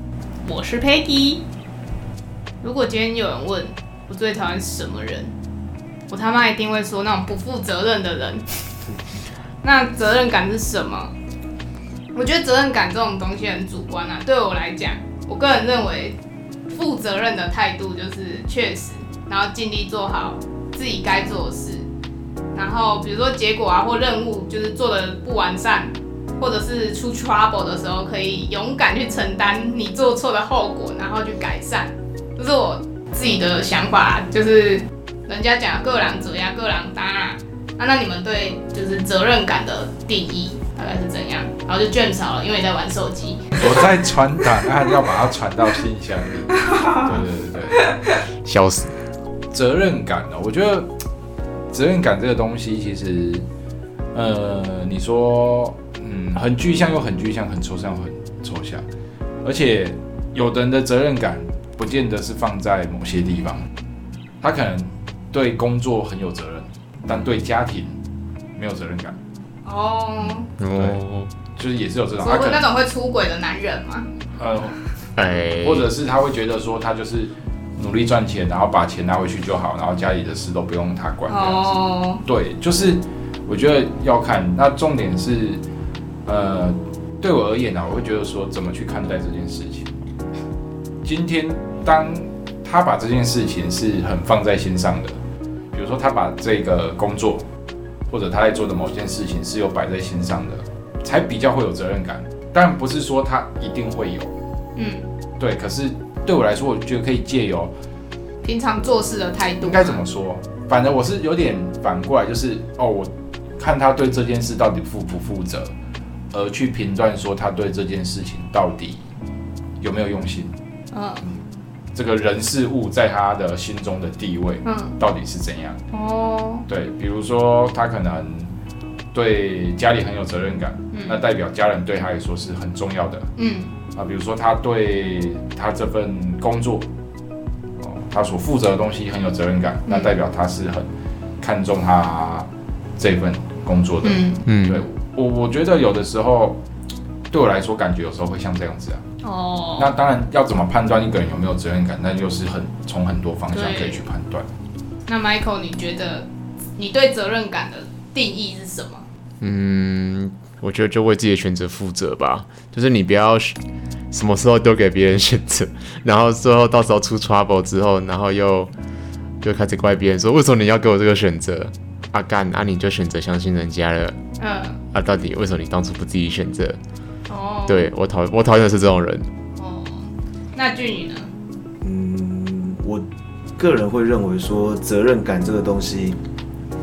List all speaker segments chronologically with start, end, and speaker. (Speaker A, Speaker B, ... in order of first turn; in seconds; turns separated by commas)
Speaker A: 0.5-1.4, Speaker A: 2.6-5.3, Speaker A: 6.1-8.4, Speaker A: 9.6-11.1, Speaker A: 12.2-16.2, Speaker A: 16.7-21.9, Speaker A: 22.5-43.8, Speaker B: 43.6-47.8, Speaker A: 46.6-47.1, Speaker A: 47.8-48.2, Speaker C: 48.5-48.9, Speaker B: 49.5-50.9, Speaker B: 51.7-53.5, Speaker B: 54.1-58.8, Speaker B: 59.4-63.6, Speaker B: 64.4-68.0, Speaker B: 68.6-69.2, Speaker A: 69.7-70.5, Speaker C: 70.6-71.3, Speaker B: 70.7-71.0, Speaker B: 71.6-72.7, Speaker A: 72.2-74.1, Speaker B: 74.4-74.8, Speaker C: 75.2-75.9, Speaker B: 75.6-85.6, Speaker A: 81.3-82.2, Speaker B: 86.3-89.9, Speaker B: 91.0-95.2, Speaker B: 95.7-97.4, Speaker B: 98.1-104.3, Speaker A: 104.8-105.0, Speaker B: 105.4-107.7, Speaker A: 108.4-110.0, Speaker B: 109.6-115.7, Speaker B: 116.3-119.0, Speaker B: 119.8-120.5, Speaker A: 120.9-121.3, Speaker B: 122.0-125.8, Speaker A: 124.7-124.9, Speaker A: 125.9-126.6, Speaker B: 126.7-128.5, Speaker B: 129.1-133.3, Speaker A: 130.9-131.2, Speaker A: 133.4-133.7, Speaker B: 134.0-136.9, Speaker B: 137.8-140.9, Speaker A: 139.9-140.1, Speaker B: 141.4-146.6, Speaker A: 144.0-144.4, Speaker C: 144.5-144.9, Speaker B: 147.3-149.0, Speaker A: 149.2-149.9, Speaker B: 149.8-154.5, Speaker A: 153.5-154.0, Speaker A: 155.1-159.1, Speaker C: 159.4-163.6, Speaker C: 164.1-168.7, Speaker C: 169.4-174.2, Speaker A: 174.4-174.8, Speaker C: 174.9-176.8, Speaker A: 177.3-177.9, Speaker C: 177.7-179.3, Speaker A: 179.6-181.3, Speaker D: 181.8-183.1, Speaker D: 183.6-186.2